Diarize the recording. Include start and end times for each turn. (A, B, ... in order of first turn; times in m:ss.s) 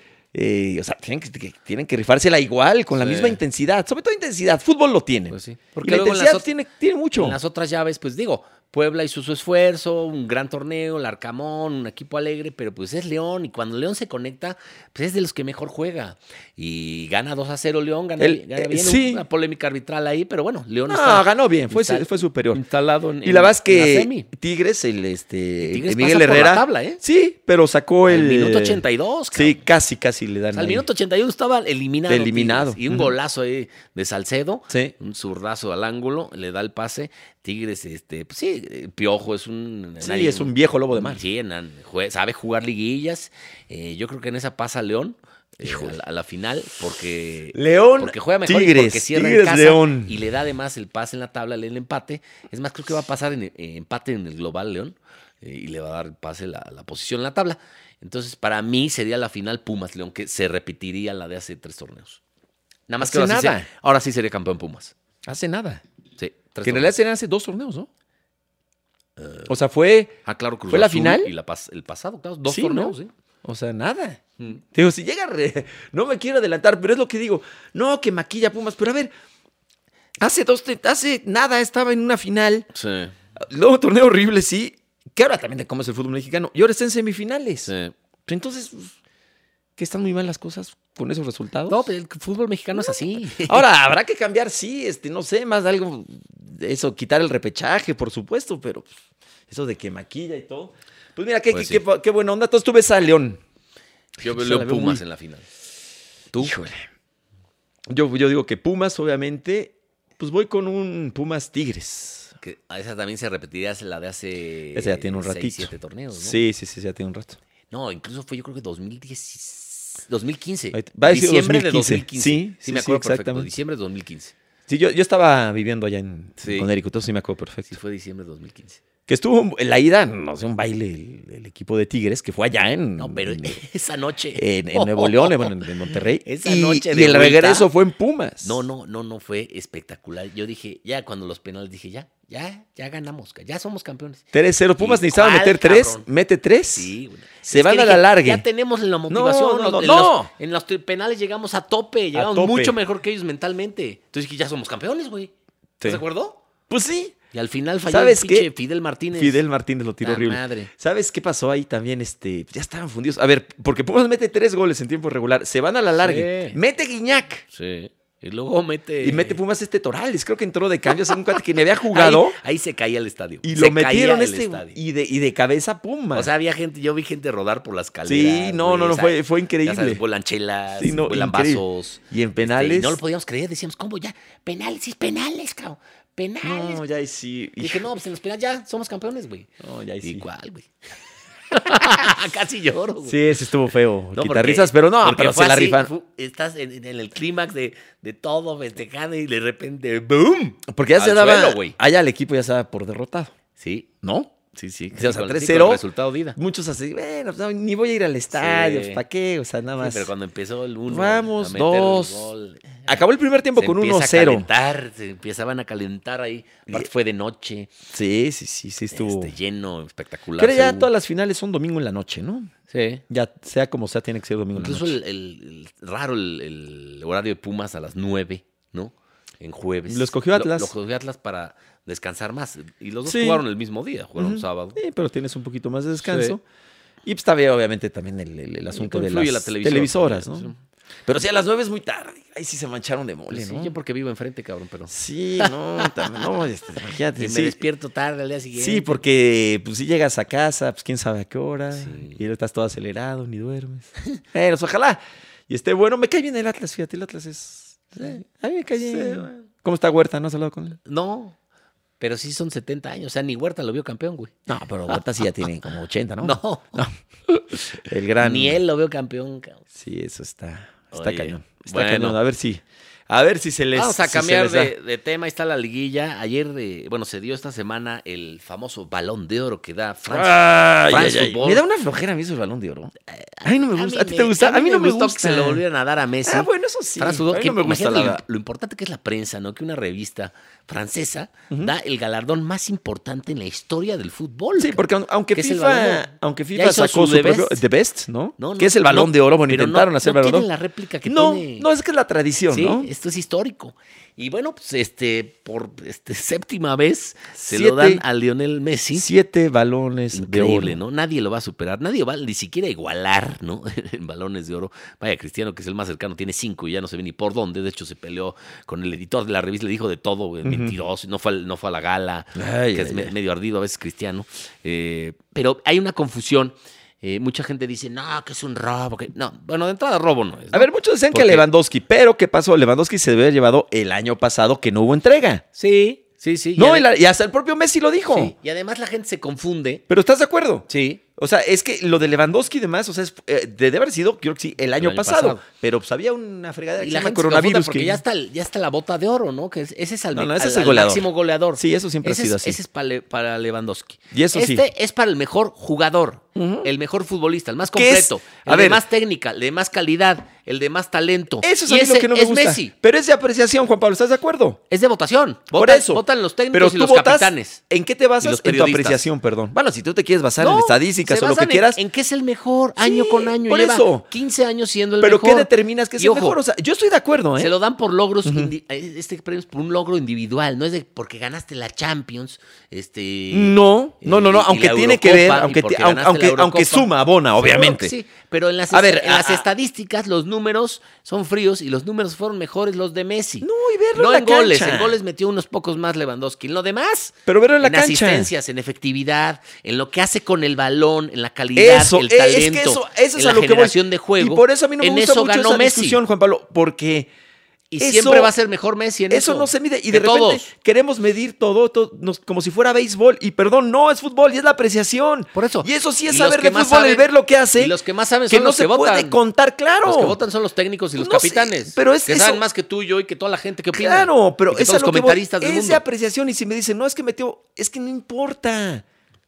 0:00.3-0:07.4 A
0:02.9-0:03.4 B
0:05.3-0:06.5 B
0:07.1-0:24.3 B
0:18.2-0:19.2 A
0:20.9-0:22.6 A
0:23.2-0:30.8 A
0:25.6-0:27.0 B
0:28.1-0:29.6 B
0:30.5-1:02.2 B
0:32.1-0:33.1 A
0:40.0-0:41.2 A
0:45.6-0:46.0 A
0:47.5-0:50.2 A
1:02.9-1:04.9 B
1:03.0-1:03.7 A
1:05.2-1:05.8 A
1:06.2-1:06.9 B
1:06.6-1:07.9 A
1:09.2-1:09.5 B
1:09.5-1:10.2 A
1:10.2-1:13.1 B
1:10.7-1:11.3 A
1:12.4-1:14.2 A
1:14.7-1:19.1 A
1:20.2-1:22.7 A
1:22.7-1:23.1 B
1:23.4-1:27.7 A
1:27.6-1:27.9 B
1:28.2-1:28.9 A
1:29.8-1:31.8 A
1:31.7-1:33.6 B
1:32.8-1:38.9 A
1:39.5-1:43.4 A
1:41.5-1:41.8 B
1:44.2-1:45.4 B
1:44.2-1:45.0 A
1:46.3-1:46.6 B
1:46.4-1:46.8 A
1:47.9-1:52.3 A
1:52.4-1:56.4 B
1:54.7-1:57.4 A
1:57.7-2:04.3 B
2:00.7-2:03.5 A
2:04.7-2:07.8 A
2:06.4-2:06.7 B
2:07.7-2:08.8 B
2:09.1-2:13.6 A
2:13.0-2:17.7 B
2:14.4-2:18.6 A
2:18.4-2:24.2 B
2:24.3-2:26.9 A
2:24.8-2:26.1 B
2:26.7-2:36.4 B
2:27.5-2:28.4 A
2:29.1-2:30.3 A
2:32.1-2:32.8 A
2:36.7-2:37.1 A
2:37.3-2:39.4 B
2:37.8-2:38.5 A
2:39.1-2:47.4 A
2:40.0-2:40.7 B
2:46.0-2:46.6 B
2:47.5-2:49.4 B
2:49.0-2:52.4 A
2:50.9-2:51.2 B
2:51.9-2:54.8 B
2:53.4-2:56.3 A
2:56.1-3:06.8 B
2:58.0-3:00.0 A
3:00.8-3:03.0 A
3:06.4-3:07.9 A
3:07.6-3:09.5 B
3:09.6-3:10.2 A
3:10.0-3:10.7 B
3:11.5-3:13.2 B
3:13.0-3:15.9 A
3:14.1-3:21.8 B
3:20.7-3:23.3 A
3:23.6-3:23.9 B
3:24.0-3:24.3 A
3:24.5-3:26.4 B
3:24.9-3:25.8 A
3:26.4-3:30.1 A
3:28.3-3:29.0 B
3:29.8-3:32.8 B
3:30.9-3:32.3 A
3:32.9-3:34.5 A
3:33.6-3:37.7 B
3:37.9-3:39.3 A
3:38.9-3:40.9 B
3:40.4-3:42.5 A
3:42.7-3:43.0 B
3:43.1-3:45.0 A
3:44.5-3:54.8 B
3:49.9-3:50.7 A
3:53.0-3:53.4 A
3:54.2-3:56.4 A
3:56.0-3:56.4 B
3:57.0-4:00.5 A
3:58.7-4:00.6 B
4:01.0-4:03.7 A
4:03.3-4:06.3 B
4:04.9-4:07.6 A
4:07.1-4:09.0 B
4:08.5-4:20.8 A
4:11.7-4:12.2 B
4:18.8-4:19.5 B
4:20.8-4:21.4 B
4:22.0-4:24.3 B
4:24.5-4:28.6 A
4:26.2-4:26.8 B
4:28.2-4:29.6 B
4:29.7-4:34.7 A
4:30.9-4:32.2 B
4:33.7-4:41.6 B
4:40.1-4:42.9 A
4:43.1-4:54.8 B
4:43.4-4:45.6 A
4:46.2-4:48.2 A
4:54.6-5:00.5 A
4:55.3-4:57.6 B
4:58.4-5:01.7 B
5:01.0-5:02.9 A
5:02.5-5:09.1 B
5:07.4-5:08.0 A
5:08.9-5:10.8 A
5:10.1-5:31.4 B
5:20.4-5:20.8 A
5:22.3-5:23.1 A
5:30.5-5:35.4 A
5:35.6-5:36.9 B
5:36.6-5:38.3 A
5:38.1-5:39.8 B
5:39.9-5:48.0 A
5:40.7-5:41.0 B
5:44.8-5:45.4 B
5:46.8-6:02.7 B
5:50.1-5:52.6 A
5:54.1-5:54.6 A
5:56.3-5:56.7 A
5:57.7-5:58.8 A
6:01.4-6:04.6 A
6:04.7-6:07.6 B
6:05.5-6:11.8 A
6:08.2-6:09.0 B
6:10.4-6:16.4 B
6:12.8-6:14.0 A
6:15.0-6:17.5 A
6:17.4-6:46.0 B
6:18.2-6:18.5 A
6:23.3-6:27.9 A
6:28.7-6:29.4 A
6:33.4-6:35.0 A
6:37.3-6:38.3 A
6:41.6-6:47.1 A
6:47.7-6:50.5 B
6:47.8-6:48.3 A
6:49.1-6:57.7 A
6:55.3-6:59.2 B
6:58.3-7:00.2 A
6:59.8-7:05.8 B
7:01.0-7:02.4 A
7:03.7-7:08.8 A